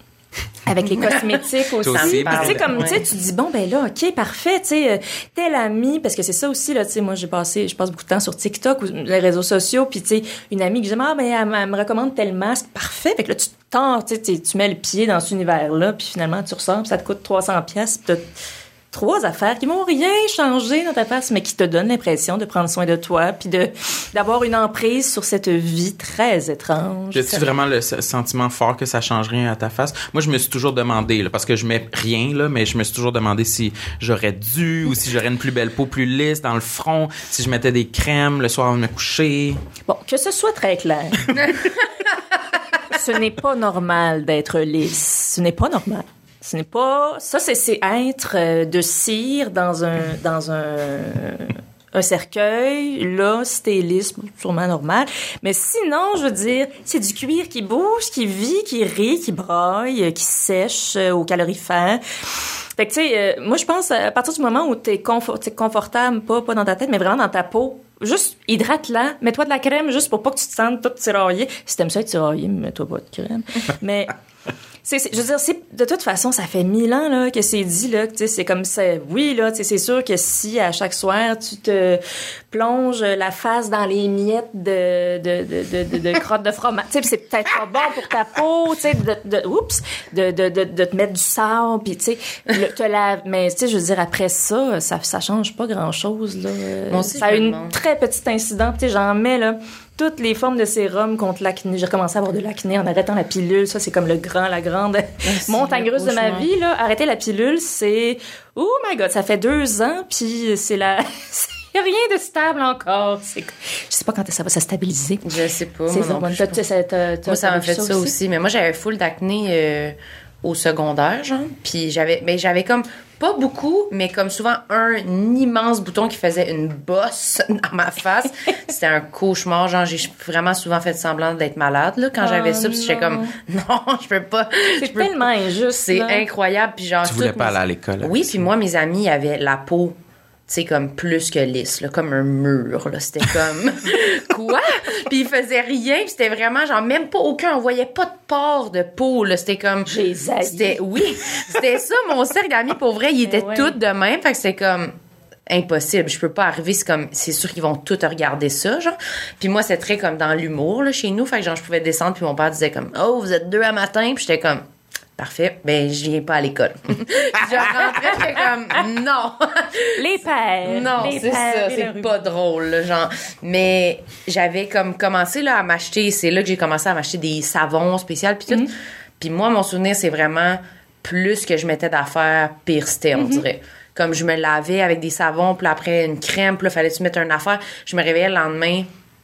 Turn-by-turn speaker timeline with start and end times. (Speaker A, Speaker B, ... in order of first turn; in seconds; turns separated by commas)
Speaker A: 0.7-18.2, Speaker B: 1.8-3.0, Speaker C: 1.9-3.0, Speaker A: 18.9-27.3, Speaker B: 27.1-39.6, Speaker A: 39.9-41.5, Speaker A: 42.9-62.0, Speaker A: 62.8-74.1, Speaker A: 74.8-115.2, Speaker C: 96.9-97.8, Speaker C: 105.2-106.5, Speaker C: 115.2-116.6, Speaker A: 115.9-118.1, Speaker C: 117.2-140.0, Speaker A: 132.2-133.3, Speaker A: 134.8-136.2, Speaker B: 137.0-138.4, Speaker C: 140.5-154.9, Speaker A: 149.9-150.8, Speaker A: 153.3-153.8, Speaker C: 155.5-164.6, Speaker C: 165.2-170.0, Speaker A: 170.0-172.1, Speaker C: 170.7-178.7, Speaker C: 179.2-188.9, Speaker A: 183.2-183.4